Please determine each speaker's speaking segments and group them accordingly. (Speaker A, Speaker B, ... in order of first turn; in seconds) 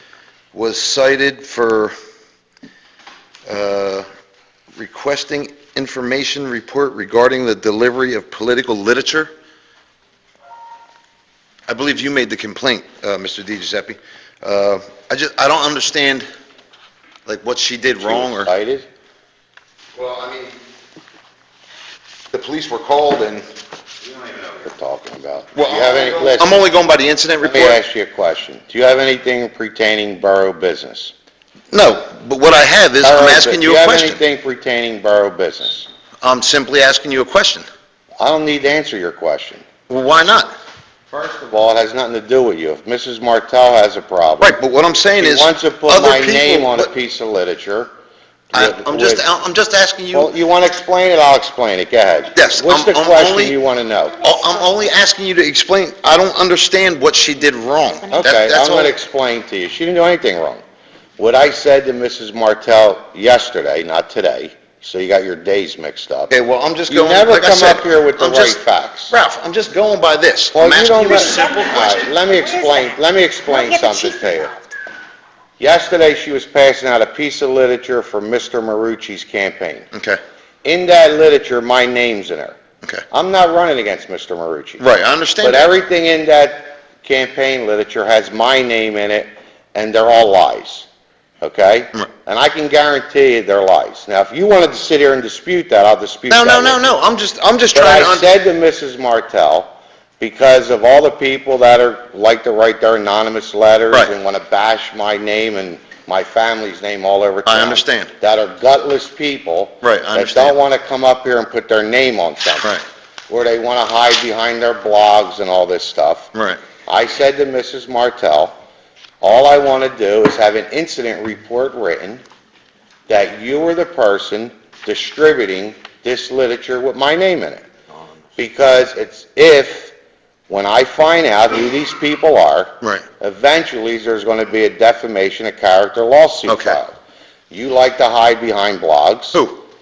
Speaker A: 0.5-1.9, 3.5-4.1, 4.8-9.3, 11.7-16.3, 17.3-18.5, 19.9-20.6, 22.3-23.5, 25.6-27.8, 31.7-34.2, 36.2-37.7, 39.9-40.5, 44.4-46.9, 48.5-50.3, 52.3-53.6, 54.2-58.9, 66.3-68.6, 69.1-72.1, 79.9-80.2, 84.8-85.6, 96.3-98.3, 107.5-108.1, 109.8-110.6, 116.3-116.6, 136.5-136.8, 139.3-139.6
Speaker B: 18.0-18.9, 24.6-26.7, 27.4-31.1, 33.0-35.9, 38.2-39.6, 41.1-44.6, 45.2-47.9, 48.5-49.3, 50.1-54.2, 58.1-60.6, 61.2-66.3, 66.9-69.2, 70.5-74.5, 75.6-79.9, 80.7-82.6, 83.1-84.8, 85.4-90.9, 91.4-96.8, 97.7-112.7, 113.3-116.3, 116.9-118.5, 119.2-122.2, 123.1-127.7, 128.4-129.9, 130.5-136.9, 137.5-139.4
Speaker C: 54.4-54.8, 71.1-74.8